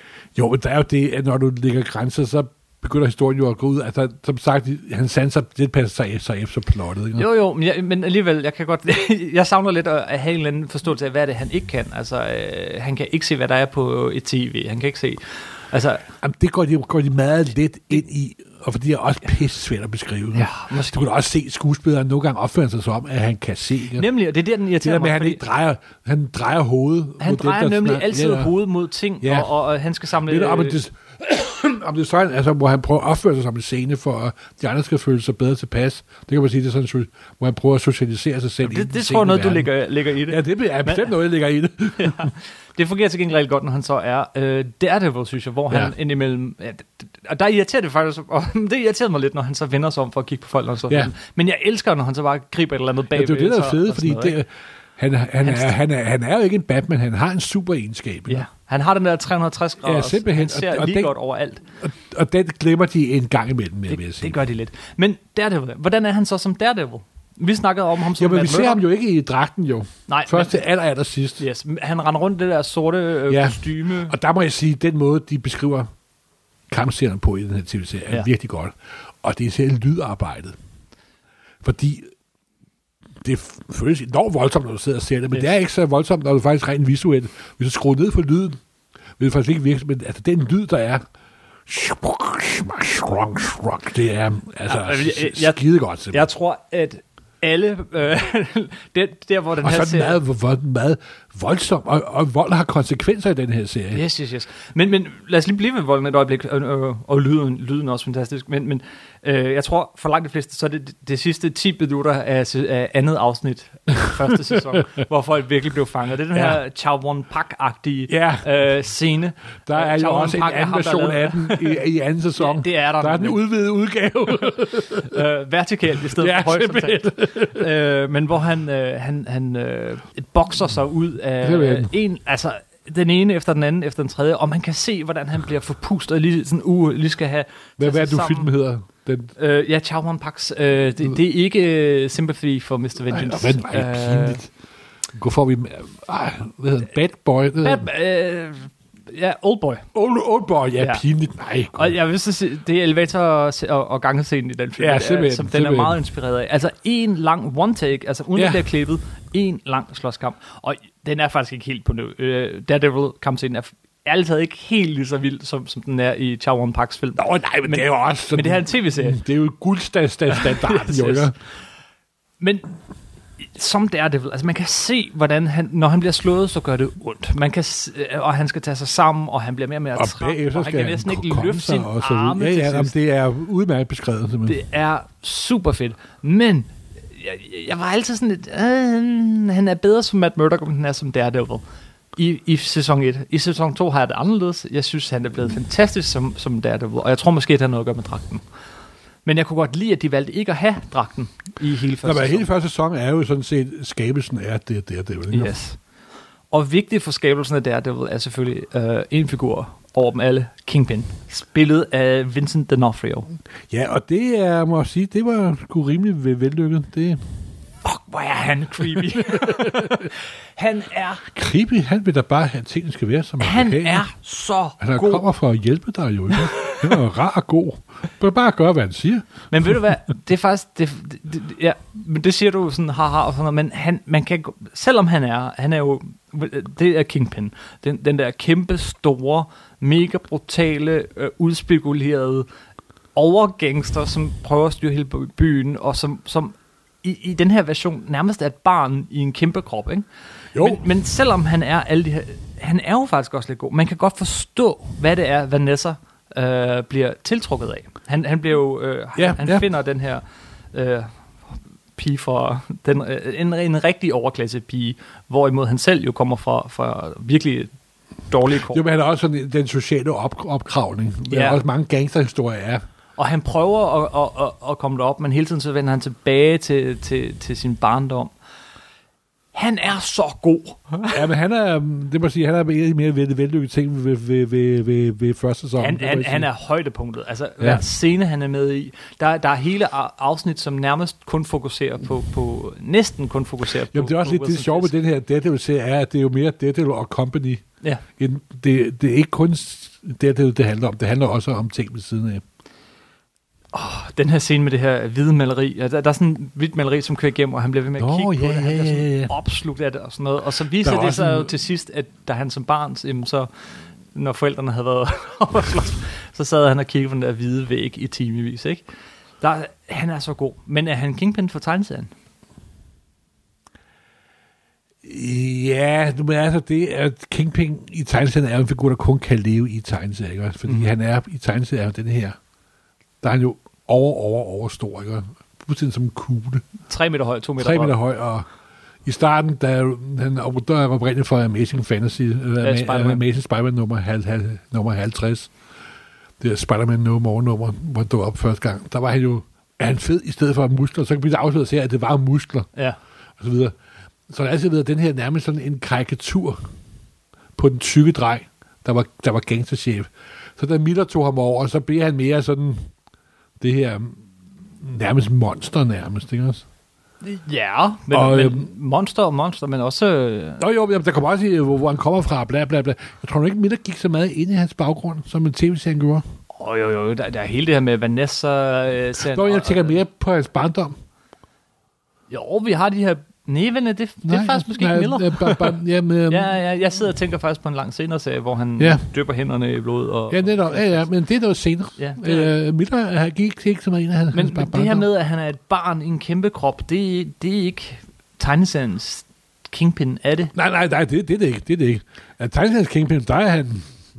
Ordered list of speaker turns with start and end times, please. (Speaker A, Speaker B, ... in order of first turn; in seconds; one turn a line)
Speaker A: 0.3-7.3
Speaker B: 7.2-16.1
Speaker A: 16.2-24.1
Speaker B: 20.3-21.0
Speaker B: 23.9-25.4
Speaker A: 24.8-28.5
Speaker B: 27.2-30.8
Speaker A: 29.2-29.5
Speaker A: 30.2-39.7
Speaker B: 38.6-41.1
Speaker A: 40.3-42.3
Speaker B: 42.0-54.4
Speaker A: 53.1-58.5
Speaker B: 55.4-55.8
Speaker B: 58.3-61.6
Speaker A: 59.8-61.1
Speaker A: 61.8-64.4
Speaker B: 63.9-68.8
Speaker A: 68.2-71.4
Speaker B: 70.1-70.5
Speaker B: 71.4-74.1
Speaker A: 73.3-75.9
Speaker A: 76.7-80.5
Speaker A: 81.6-82.1
Speaker A: 83.2-88.6
Speaker A: 89.2-91.0
Speaker A: 91.7-96.2
Speaker B: 94.7-95.6
Speaker B: 96.1-100.2
Speaker A: 99.6-104.0
Speaker B: 103.9-121.8
Speaker A: 116.3-116.6
Speaker A: 118.1-118.5
Speaker A: 119.7-125.2
Speaker B: 122.4-123.4
Speaker B: 124.9-138.5
Speaker A: 126.2-127.7
Speaker A: 131.4-131.9
Speaker A: 137.8-139.3
Speaker B: 139.4-144.4
Speaker A: 143.1-144.5
Speaker A: 145.1-147.9
Speaker B: 147.6-149.8
Speaker A: 149.9-152.0
Speaker B: 151.7-169.2
Speaker A: 154.8-156.0
Speaker A: 158.3-158.6
Speaker A: 167.2-171.3
Speaker B: 170.3-171.3
Speaker B: 172.4-172.7
Speaker B: 173.4-182.9
Speaker A: 179.9-184.6
Speaker B: 184.4-191.6
Speaker B: 192.2-198.4
Speaker B: 199.2-202.5
Speaker A: 202.0-205.5
Speaker B: 205.3-205.8
Speaker B: 206.5-213.3
Speaker A: 213.7-217.2
Speaker B: 217.8-221.3
Speaker A: 219.1-220.1
Speaker A: 221.3-224.1
Speaker B: 223.4-225.2
Speaker A: 224.8-229.7
Speaker B: 226.3-227.0
Speaker B: 229.5-242.5
Speaker B: 243.1-261.1
Speaker A: 250.5-250.8
Speaker A: 259.2-259.6
Speaker B: 261.9-267.7
Speaker B: 268.3-268.8
Speaker A: 268.6-272.8
Speaker B: 271.3-271.6
Speaker B: 273.2-278.3
Speaker B: 279.5-281.2
Speaker A: 281.1-286.5
Speaker B: 285.8-294.9
Speaker A: 293.9-297.6
Speaker A: 298.2-302.4
Speaker B: 303.7-313.5
Speaker A: 308.0-309.3
Speaker A: 310.8-311.5
Speaker B: 314.1-318.8
Speaker B: 319.4-322.1
Speaker A: 325.0-332.4
Speaker A: 333.2-336.6
Speaker B: 336.9-337.9
Speaker A: 337.6-338.4
Speaker A: 339.0-345.5
Speaker B: 342.6-343.2
Speaker A: 346.4-352.7
Speaker A: 353.4-353.7
Speaker A: 354.3-356.6
Speaker A: 357.6-362.9
Speaker A: 363.6-364.2
Speaker A: 364.8-366.6
Speaker B: 367.2-370.6
Speaker A: 368.1-368.7
Speaker A: 370.6-376.2
Speaker B: 376.5-380.0
Speaker A: 379.3-380.9
Speaker B: 382.3-385.8
Speaker A: 384.2-386.5
Speaker B: 386.3-391.1
Speaker A: 390.3-395.1
Speaker B: 392.0-392.5
Speaker B: 394.3-400.5
Speaker A: 400.5-403.9